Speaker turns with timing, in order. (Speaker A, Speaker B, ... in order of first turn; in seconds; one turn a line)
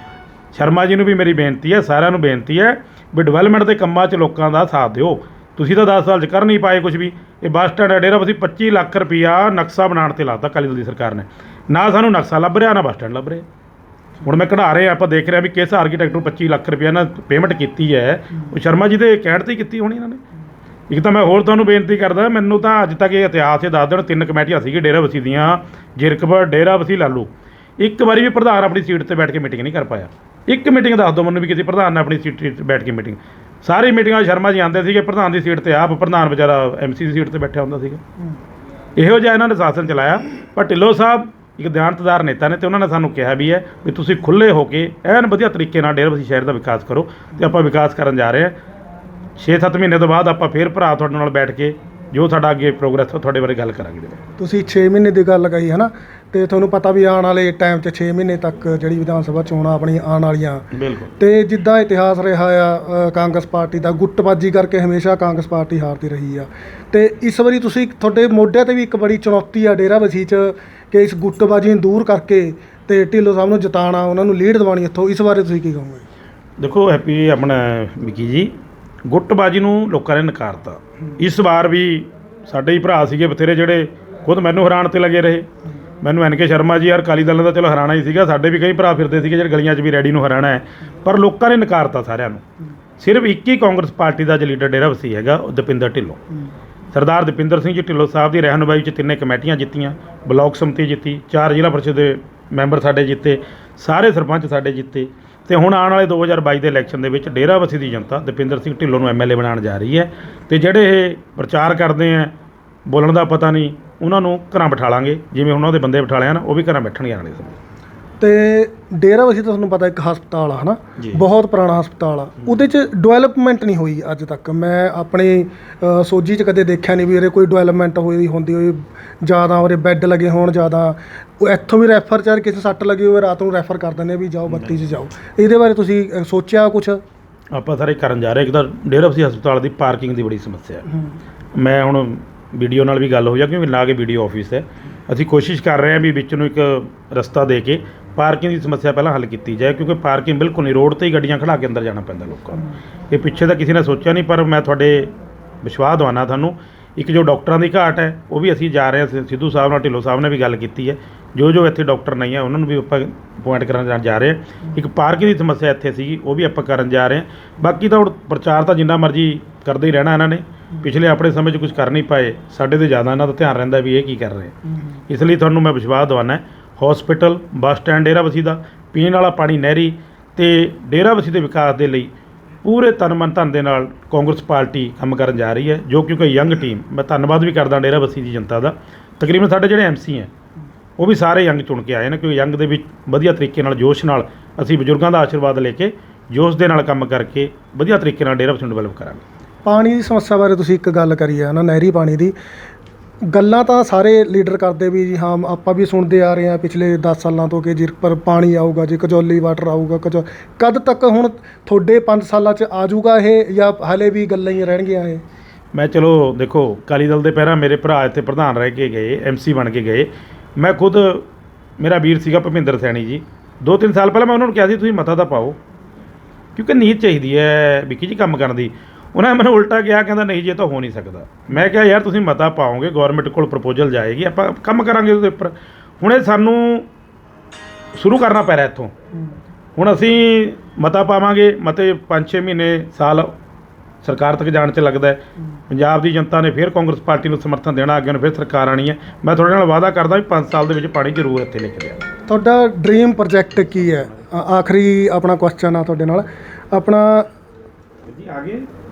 Speaker A: 0.5-13.4
Speaker A: 14.2-20.2
Speaker A: 20.9-38.0
Speaker A: 39.0-48.5
Speaker A: 49.4-54.2
Speaker B: 54.4-60.6
Speaker A: 60.7-61.1
Speaker B: 61.2-76.0
Speaker A: 76.6-78.5
Speaker A: 79.0-85.5
Speaker A: 86.0-92.4
Speaker A: 93.0-96.2
Speaker A: 96.9-112.3
Speaker A: 112.8-117.5
Speaker B: 118.2-137.0
Speaker A: 121.0-121.2
Speaker A: 134.5-135.0
Speaker A: 137.5-140.8
Speaker A: 141.5-174.5
Speaker A: 175.1-182.1
Speaker A: 182.6-190.3
Speaker A: 191.0-199.2
Speaker B: 199.6-202.3
Speaker B: 203.3-215.2
Speaker A: 215.7-225.6
Speaker A: 226.6-236.9
Speaker A: 237.9-238.9
Speaker A: 239.8-243.3
Speaker A: 244.0-252.0
Speaker B: 252.3-257.3
Speaker A: 258.1-258.7